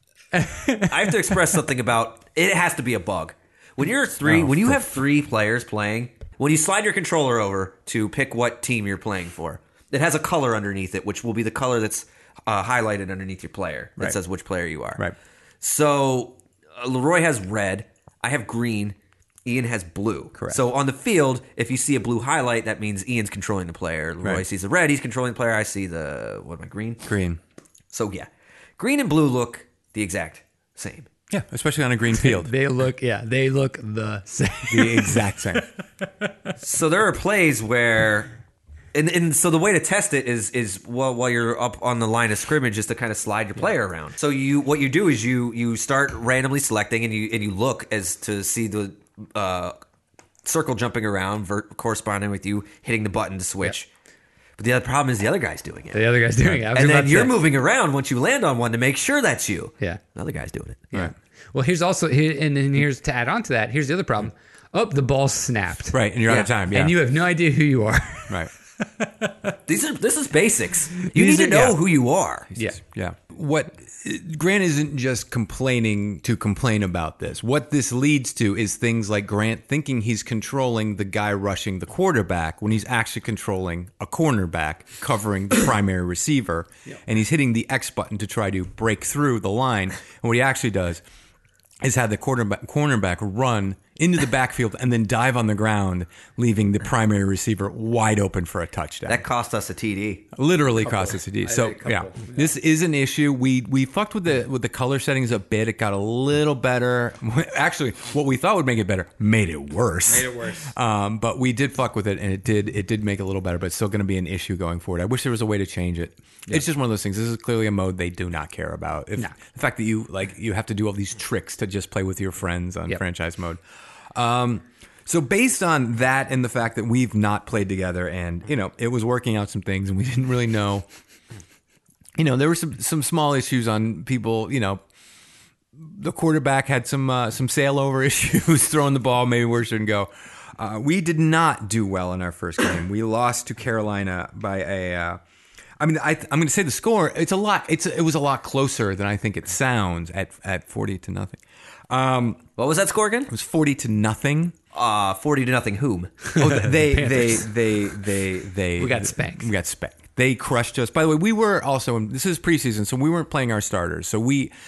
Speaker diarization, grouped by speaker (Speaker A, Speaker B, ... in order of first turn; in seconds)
Speaker A: 0.3-1.4, 32.1-35.6, 55.9-57.4, 60.9-69.6, 100.8-102.5, 110.1-110.7, 156.3-157.5, 158.8-159.5
Speaker B: 0.9-15.0, 15.6-27.1, 27.9-31.1, 36.6-38.3, 38.9-49.8, 50.4-53.9, 54.6-56.1, 56.7-60.9, 69.7-72.5, 99.1-100.3, 152.6-153.3, 154.7-156.3
Speaker C: 4.2-4.8, 20.3-20.6, 27.0-27.4, 31.3-32.5, 34.7-35.7, 65.9-67.0, 71.1-71.8, 72.5-91.0, 91.8-99.2, 100.3-123.6, 124.1-130.8, 132.2-134.8, 135.8-145.2, 145.8-152.4, 153.3-154.6, 156.3-164.5